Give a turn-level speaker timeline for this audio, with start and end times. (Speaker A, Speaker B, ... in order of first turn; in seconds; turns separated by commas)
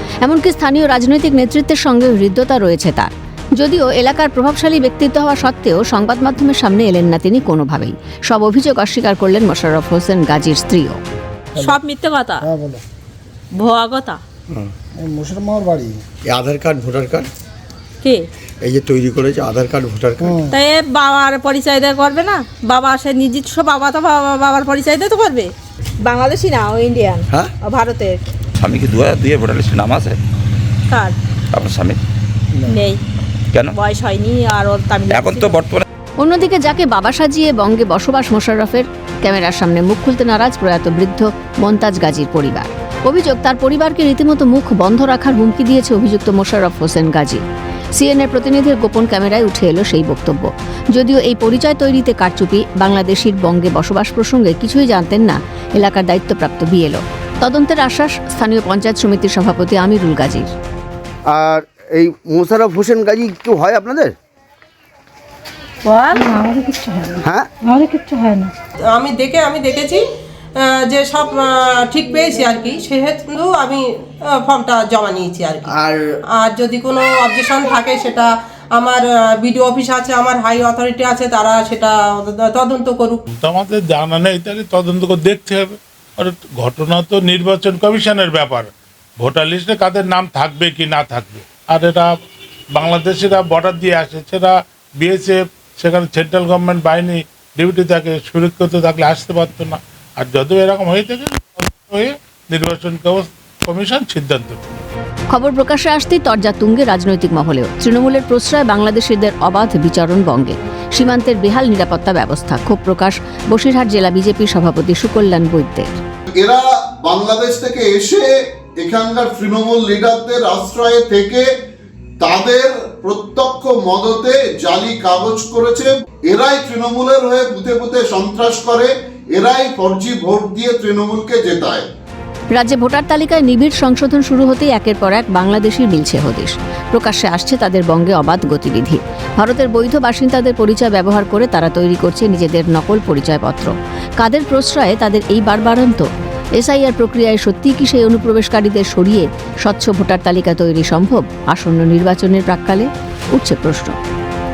Speaker A: 0.2-11.0, Speaker B: 11.6-11.8, Speaker C: 11.6-12.4, Speaker B: 12.4-12.8, Speaker C: 13.6-14.2, Speaker B: 14.9-16.0, Speaker D: 16.2-17.3, Speaker D: 18.6-20.4, Speaker B: 20.2-20.6, Speaker C: 20.5-25.5, Speaker C: 26.0-28.2, Speaker E: 28.6-30.2, Speaker C: 30.9-31.1, Speaker E: 31.5-32.0, Speaker C: 32.7-33.0, Speaker E: 33.5-33.8, Speaker C: 33.8-35.1, Speaker E: 35.1-35.8, Speaker A: 36.2-47.4, Speaker A: 47.9-60.5, Speaker F: 61.3-64.1, Speaker G: 66.0-68.5, Speaker H: 68.9-70.0, Speaker H: 70.6-75.7, Speaker H: 76.4-83.2, Speaker I: 83.3-92.1, Speaker I: 92.7-104.6, Speaker A: 105.3-116.0, Speaker J: 116.4-121.5, Speaker J: 122.2-131.8, Speaker A: 132.5-146.1, Speaker A: 146.6-153.9